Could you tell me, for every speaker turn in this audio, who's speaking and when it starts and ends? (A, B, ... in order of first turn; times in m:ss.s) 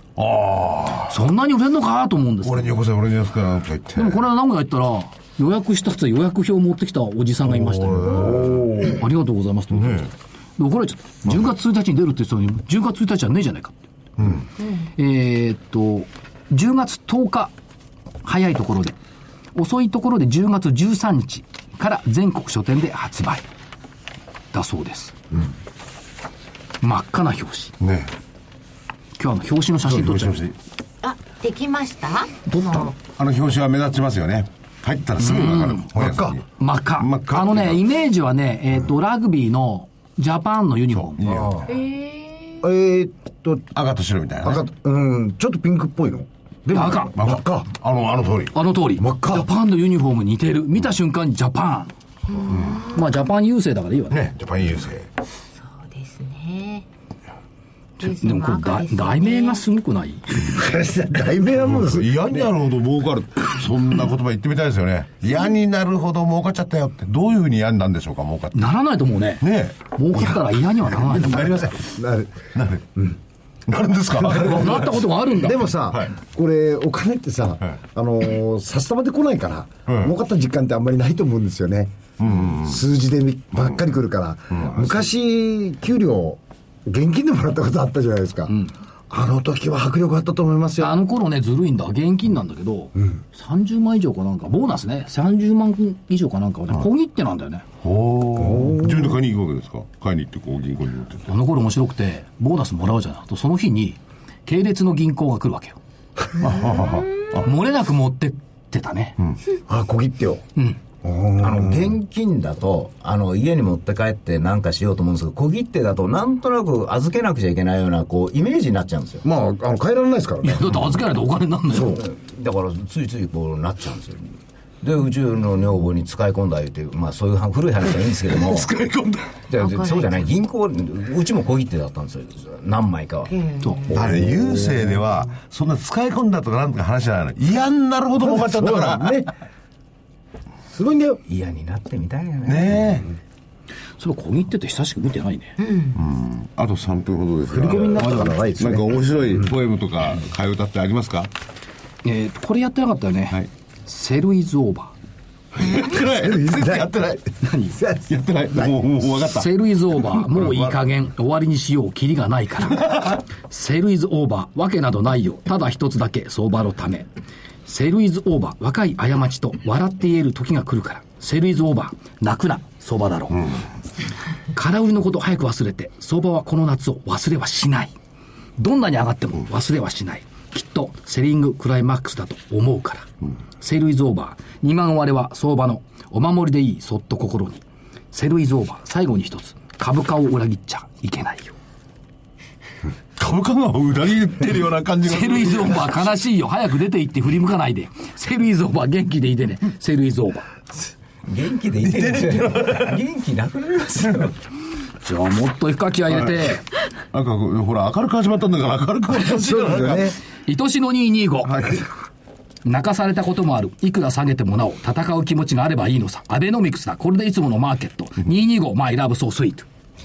0:00.2-0:01.2 A
0:01.1-0:02.8 B
0:02.4-0:04.2 A
0:03.9-0:13.8 B
0:07.4-0:09.0 A
0:08.2-0:08.5 C
0:09.7-0:10.1 A
0:14.2-0:14.4 A
0:14.6-0:14.9 D
0:15.0-0:17.5 B
0:18.2-0:19.0 B
0:19.5-0:23.4 B
0:24.5-0:25.2 B
0:26.8-0:27.7 B
0:27.8-0:28.1 A
0:29.2-0:30.4 B
0:29.8-0:30.6 A
0:31.0-0:32.9 D
0:32.5-0:32.9 B
0:33.2-0:36.4 A
0:35.2-0:35.9 B
0:35.9-0:36.4 C
0:36.6-0:41.3 B
0:37.0-0:37.8 A
0:41.1-0:41.6 A
0:41.3-0:41.7 E
0:41.7-0:42.7 D
0:42.6-0:43.6 C
0:43.7-0:44.6 A
0:44.4-0:47.7 C
0:46.7-0:47.1 B
0:47.1-0:48.6 A
0:48.5-0:51.9 B
0:49.0-0:49.5 C
0:52.3-0:53.0 D
0:52.4-0:52.9 A
0:52.8-0:54.2 B
0:54.1-0:55.1 A
0:55.5-0:56.8 D
0:58.0-1:00.5 B
0:58.0-0:59.6 D
1:00.5-1:02.5 C
1:01.5-1:08.7 A
1:08.5-1:11.7 B
1:09.4-1:11.9 A
1:11.8-1:13.2 C
1:12.5-1:12.9 A
1:13.7-1:15.0 A
1:14.3-1:15.7 B
1:15.4-1:28.6 C
1:19.9-1:20.1 A
1:22.2-1:22.8 A
1:24.5-1:25.0 A
1:29.1-1:31.0 C
1:30.8-1:37.6 B
1:37.8-1:41.3 A
1:38.4-1:39.2 C
1:41.3-1:45.8 B
1:46.4-1:47.5 A
1:46.4-1:47.4 D
1:47.4-1:49.1 B
1:49.7-1:50.4 C
1:51.0-1:52.0 C
1:51.4-1:59.2 E
1:59.2-2:01.0 C
2:00.4-2:02.0 B
2:01.7-2:02.0 C
2:01.8-2:08.7 E
2:08.5-2:09.4 A
2:09.5-2:13.3 E
2:09.6-2:10.2 D
2:13.3-2:14.1 D
2:13.6-2:13.9 B
2:13.9-2:19.3 A
2:13.9-2:15.0 C
2:18.2-2:19.3 C
2:20.7-2:21.2 C
2:21.3-2:23.0 E
2:22.4-2:23.0 A
2:24.0-2:25.5 B
2:25.6-2:26.0 D
2:25.9-2:31.3 A
2:27.5-2:29.5 C
2:27.6-2:28.7 B
2:32.0-2:35.0 B
2:35.5-2:37.2 A
2:35.9-2:38.9 C
2:37.4-2:37.8 B
2:38.1-2:39.5 A
2:39.3-2:47.1 B
2:40.0-2:40.7 A
2:42.8-2:43.2 A
2:47.6-2:53.5 B
2:54.5-2:57.9 B
2:58.6-3:03.1 B
3:03.6-3:11.6 B
3:13.2-3:16.0 A
3:15.0-3:20.5 B
3:21.2-3:24.4 E
3:21.8-3:22.9 A
3:25.0-3:26.6 B
3:27.1-3:30.1 A
3:29.1-3:30.2 C
3:30.4-3:31.5 B
3:31.4-3:31.9 A
3:32.6-3:39.6 B